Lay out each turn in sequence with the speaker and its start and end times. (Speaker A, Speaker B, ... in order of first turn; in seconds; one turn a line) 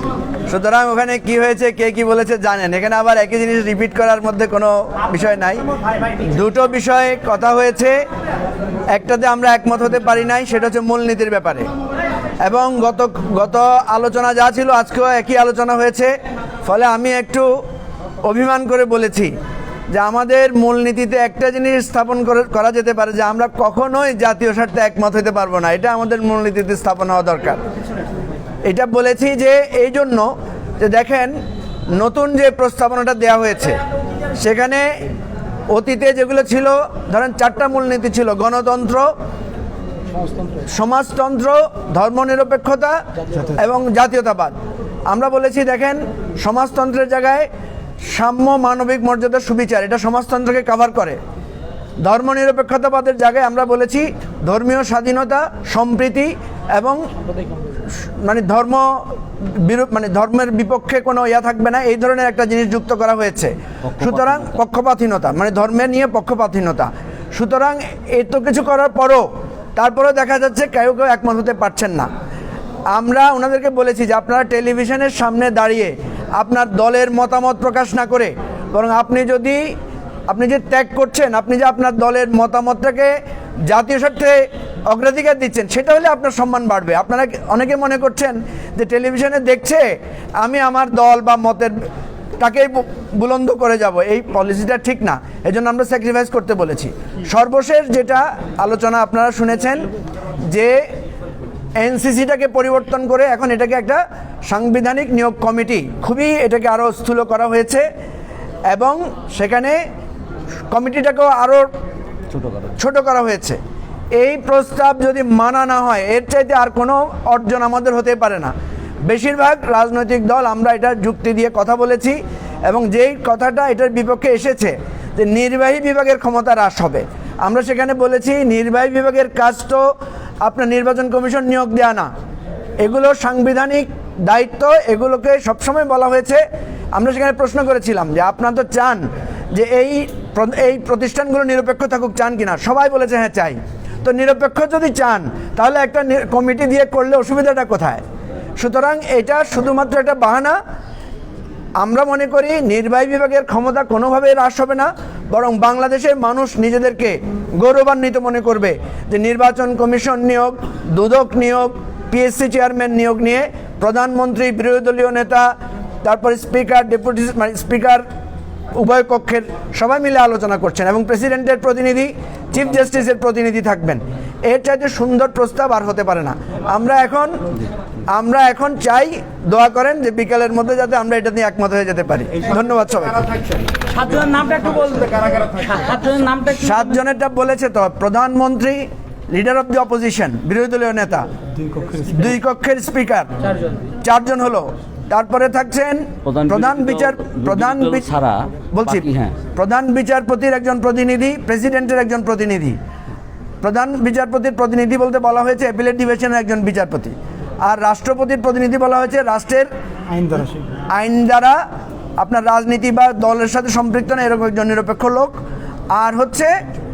Speaker A: 0.5-5.6
Speaker A: 6.2-8.0
Speaker A: 8.9-11.7
Speaker A: 12.4-16.1
Speaker A: 16.6-17.5
Speaker A: 18.2-19.3
Speaker A: 19.9-27.6
Speaker A: 28.6-33.8
Speaker A: 34.4-35.0
Speaker A: 35.7-39.1
Speaker A: 40.5-44.5
Speaker A: 45.1-47.5
Speaker A: 48.1-51.2
Speaker A: 52.0-57.0
Speaker A: 58.0-72.1
Speaker B: 63.9-64.6
Speaker A: 72.9-79.7
Speaker A: 80.3-83.1
Speaker A: 83.7-91.7
Speaker A: 92.4-99.9
Speaker A: 100.5-100.8
Speaker A: 101.8-107.9
Speaker A: 108.7-109.8
Speaker A: 110.7-111.7
Speaker B: 112.3-112.7
Speaker A: 112.8-113.6
Speaker A: 114.2-118.5
Speaker A: 119.0-132.1
Speaker A: 132.8-136.4
Speaker A: 136.9-148.0
Speaker A: 148.6-150.6
Speaker A: 151.8-165.5
Speaker A: 166.0-168.0
Speaker A: 168.7-177.4
Speaker A: 178.1-183.2
Speaker C: 183.9-186.8
Speaker A: 186.5-191.3
Speaker A: 191.9-193.3
Speaker A: 194.0-198.1
Speaker B: 196.2-199.3
Speaker A: 198.7-202.8
Speaker A: 203.6-209.7
Speaker A: 210.9-211.6
Speaker A: 212.2-215.4
Speaker A: 215.9-216.5